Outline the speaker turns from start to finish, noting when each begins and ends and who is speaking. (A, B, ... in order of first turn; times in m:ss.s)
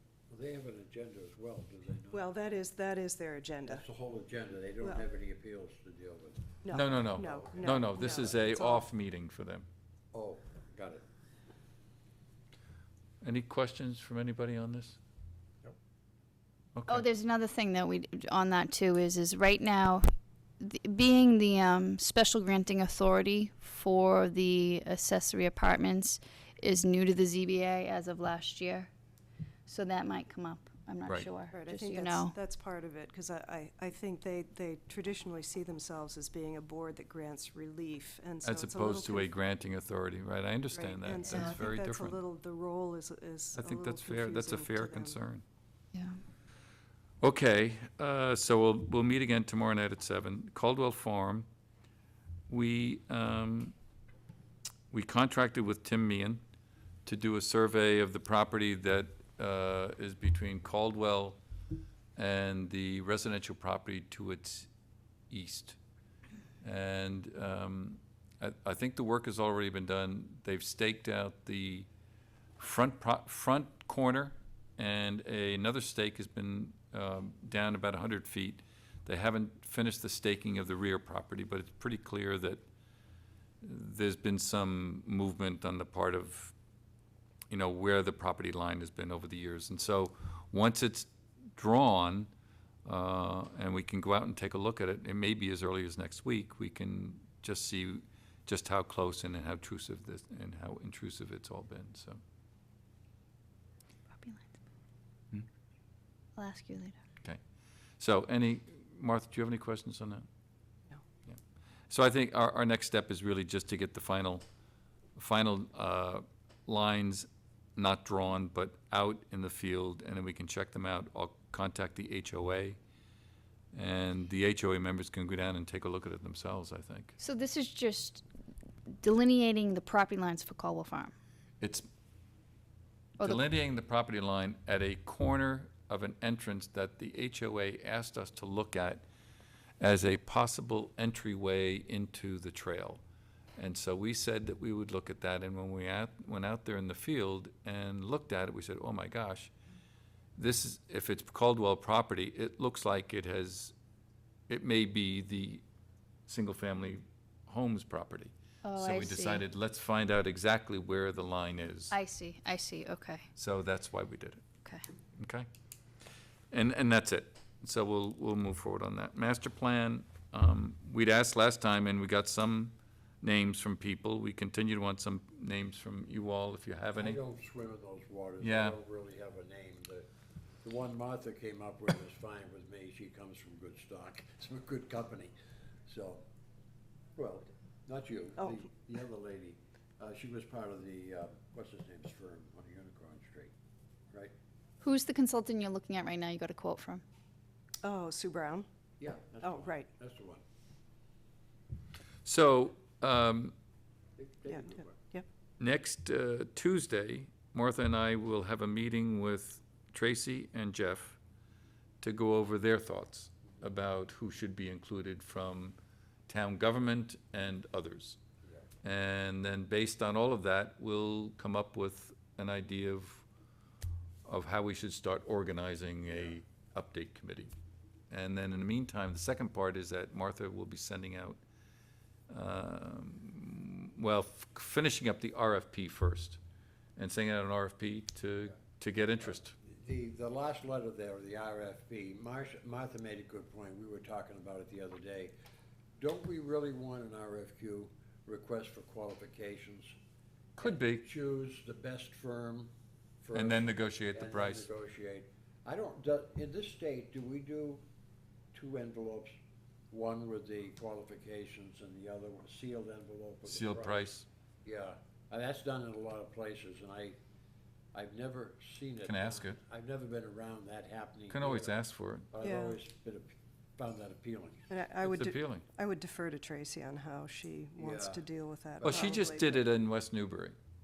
0:00.3-0:02.3 A
0:02.1-0:03.8 B
0:03.7-0:08.3 A
0:06.6-0:08.8 B
0:06.7-0:09.7 C
0:10.1-0:11.0 A
0:13.2-0:15.0 C
0:16.8-0:17.1 C
0:16.9-0:20.0 D
0:20.6-0:28.9 D
0:29.7-0:32.4 D
0:31.5-0:39.3 B
0:38.4-0:42.2 C
0:40.7-0:45.2 B
0:43.6-0:45.4 C
0:45.9-0:46.2 D
0:47.2-0:51.5 C
0:52.5-0:53.7 C
0:54.9-0:56.4 C
0:57.1-1:01.4 C
1:02.2-1:04.7 C
1:05.3-1:05.8 C
1:06.6-1:11.9 C
1:12.6-1:22.6 C
1:23.6-1:26.5 C
1:27.5-1:32.3 C
1:32.8-1:42.2 C
1:44.1-1:44.6 D
1:46.4-1:47.0 D
1:48.0-1:50.3 C
1:51.9-1:54.4 C
1:55.2-2:02.8 C
2:03.7-2:07.2 C
2:07.2-2:08.2 D
2:09.0-2:11.1 D
2:11.6-2:11.9 C
2:13.2-2:19.0 C
2:19.8-2:23.0 C
2:23.6-2:29.5 C
2:30.4-2:33.7 C
2:34.5-2:35.6 C
2:36.3-2:41.9 C
2:38.6-2:39.4 D
2:41.9-2:43.3 D
2:43.4-2:44.4 C
2:45.2-2:45.5 C
2:46.5-2:57.2 C
2:57.0-3:00.1 A
2:58.4-2:58.8 C
3:00.6-3:05.3 A
3:05.9-3:06.2 A
3:07.2-3:13.5 A
3:14.8-3:17.0 D
3:17.8-3:18.7 B
3:19.0-3:20.4 A
3:19.4-3:19.9 B
3:22.2-3:23.6 C
3:24.2-3:25.0 A
3:24.5-3:25.3 B
3:25.6-3:31.2 C
3:32.0-3:35.8 C
3:36.3-3:38.2 C
3:38.8-3:43.2 C
3:44.2-3:47.5 C
3:48.1-3:51.4 C
3:52.3-3:56.4 C
3:57.0-3:59.5 C
3:59.6-4:05.3 A
4:06.0-4:10.0 A
4:10.6-4:11.0 C
4:10.6-4:12.7 A
4:13.2-4:17.8 A
4:13.3-4:14.7 C
4:18.5-4:19.4 A
4:19.9-4:27.2 A
4:23.5-4:24.3 C
4:27.9-4:31.8 A
4:29.1-4:29.6 C
4:31.3-4:32.3 C
4:32.3-4:34.7 A
4:32.4-4:32.8 B
4:34.7-4:39.6 B
4:35.1-4:35.6 C
4:37.8-4:38.2 A
4:38.8-4:39.4 A
4:38.8-4:40.6 C